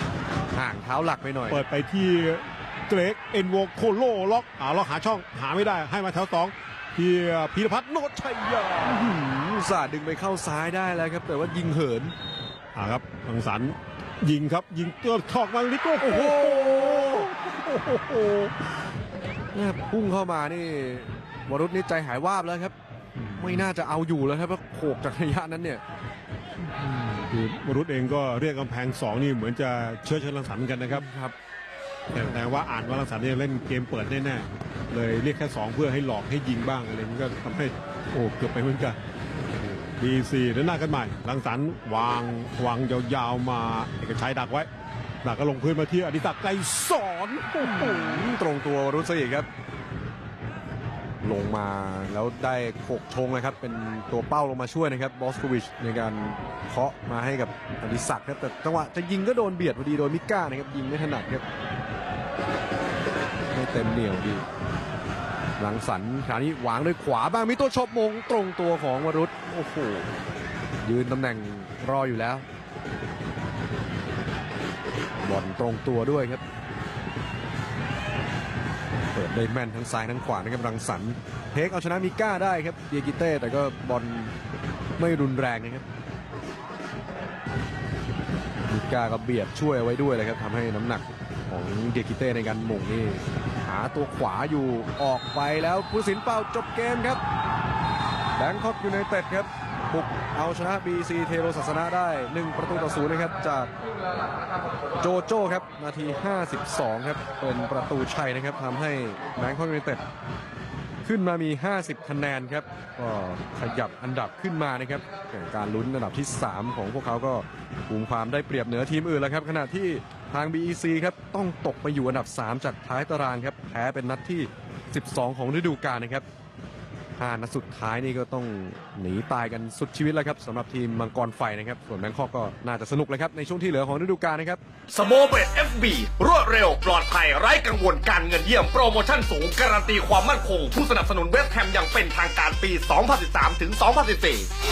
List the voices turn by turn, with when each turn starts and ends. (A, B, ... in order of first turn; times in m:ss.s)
0:00.5-0:01.6 A
0:01.5-0:09.2 B
0:08.8-0:12.1 A
0:12.7-0:18.3 B
0:16.0-0:18.5 A
0:19.5-0:22.7 A
0:23.4-0:25.8 A
0:27.2-0:31.0 B
0:30.9-0:31.3 A
0:32.1-0:39.0 B
0:40.0-0:44.7 B
0:45.2-0:48.3 B
0:47.6-0:49.5 A
0:51.2-1:01.4 A
1:03.5-1:04.4 A
1:05.6-1:10.1 A
1:10.8-1:12.4 A
1:15.2-1:16.4 A
1:19.1-1:24.3 A
1:25.0-1:25.8 A
1:28.7-1:37.2 A
1:38.4-1:43.7 A
1:45.0-1:50.0 A
1:51.0-2:06.2 A
2:07.2-2:14.6 A
2:14.9-2:24.5 C